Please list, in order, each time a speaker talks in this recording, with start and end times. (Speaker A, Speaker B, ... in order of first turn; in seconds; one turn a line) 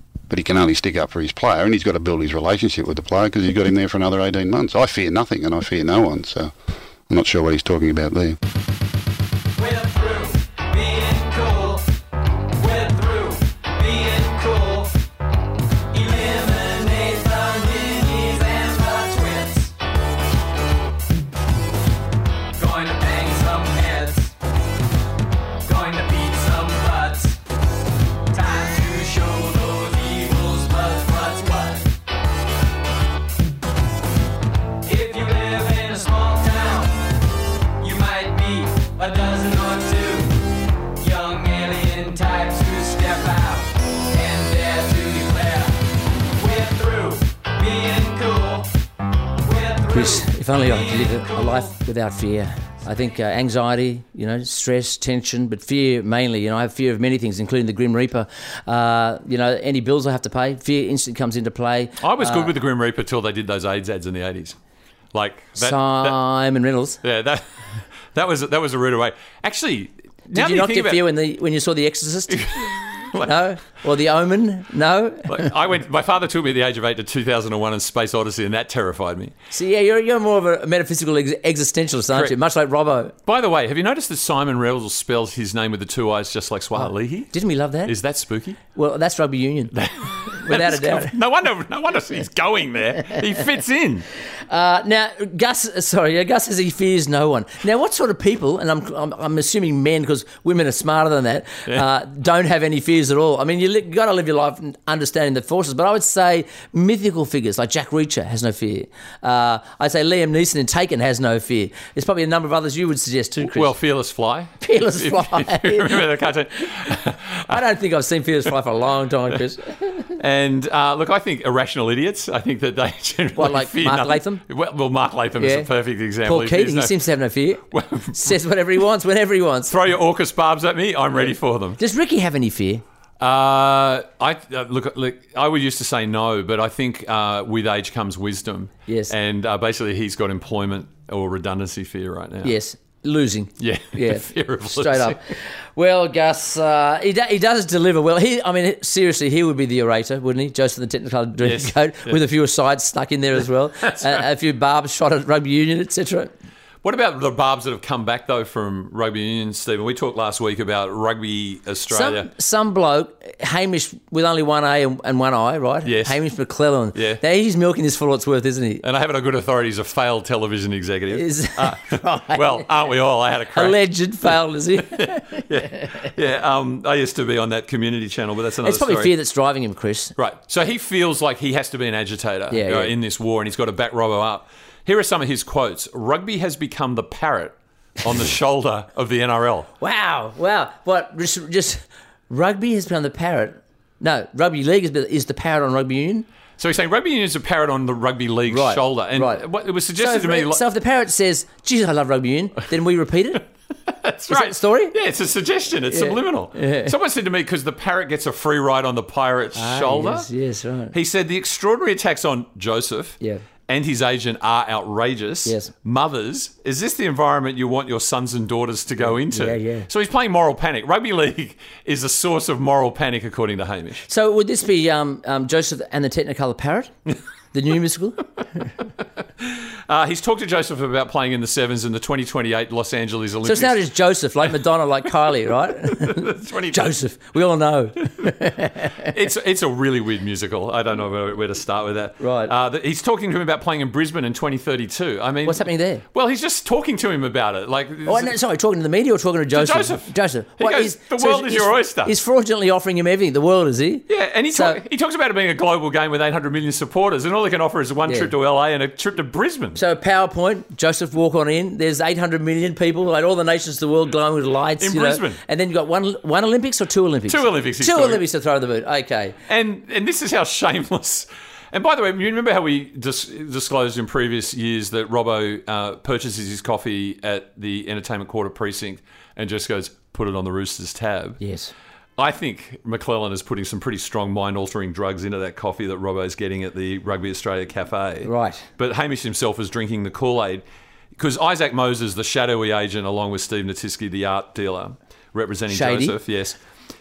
Speaker A: 0.3-6.5
Speaker A: 7.1-8.4
Speaker B: 9.6-11.8
Speaker B: 12.5-14.9
Speaker B: 15.9-19.7
Speaker B: 22.6-24.3
Speaker B: 25.6-27.4
Speaker B: 28.3-31.9
Speaker B: 34.8-37.0
Speaker B: 37.8-40.4
Speaker B: 41.0-48.7
Speaker B: 49.4-51.8
Speaker C: 49.9-62.5
Speaker D: 62.0-64.6
Speaker D: 65.1-66.2
Speaker C: 65.6-67.0
Speaker D: 67.0-67.4
Speaker D: 68.1-71.0
Speaker C: 70.3-72.5
Speaker D: 72.3-73.4
Speaker C: 73.2-75.5
Speaker D: 75.3-79.3
Speaker C: 79.5-83.1
Speaker D: 83.3-87.3
Speaker C: 86.8-87.9
Speaker D: 87.9-88.6
Speaker C: 88.8-89.7
Speaker D: 89.7-94.1
Speaker C: 90.5-91.2
Speaker C: 94.5-113.7
Speaker D: 113.4-117.6
Speaker C: 114.6-116.0
Speaker C: 117.5-120.1
Speaker D: 120.2-127.0
Speaker C: 123.4-124.4
Speaker C: 125.4-125.7
Speaker C: 126.2-127.6
Speaker D: 127.7-128.4
Speaker C: 128.2-129.7
Speaker D: 129.7-131.8
Speaker C: 131.2-132.8
Speaker D: 133.2-142.6
Speaker C: 138.9-139.1
Speaker C: 142.4-156.3
Speaker D: 143.6-145.2
Speaker D: 151.4-152.2
Speaker D: 153.9-154.2
Speaker D: 156.8-162.3
Speaker C: 161.9-168.8
Speaker D: 165.8-166.2
Speaker D: 166.9-167.2
Speaker D: 168.8-173.8
Speaker C: 171.1-172.7
Speaker C: 173.5-175.4
Speaker D: 174.9-179.1
Speaker C: 178.6-180.1
Speaker D: 180.2-189.7
Speaker C: 182.5-182.9
Speaker C: 189.8-196.3
Speaker D: 196.6-200.6
Speaker C: 198.5-199.4
Speaker C: 200.0-203.4
Speaker D: 203.9-210.3
Speaker C: 204.3-204.9
Speaker C: 205.9-206.9
Speaker C: 209.6-210.9
Speaker D: 210.9-224.1
Speaker C: 215.4-215.7
Speaker C: 219.0-219.9
Speaker C: 224.1-226.9
Speaker C: 227.5-228.7
Speaker D: 229.4-233.8
Speaker C: 233.4-239.1
Speaker D: 235.9-237.0
Speaker D: 239.1-248.3
Speaker C: 242.2-242.5
Speaker C: 245.5-246.0
Speaker C: 248.1-254.8
Speaker D: 249.5-252.1
Speaker D: 254.1-259.8
Speaker C: 259.8-269.4
Speaker D: 264.8-265.4
Speaker D: 267.3-268.2
Speaker D: 269.5-281.4
Speaker C: 281.4-281.7
Speaker D: 282.2-290.6
Speaker C: 288.2-288.6
Speaker D: 291.2-296.6
Speaker C: 295.7-296.2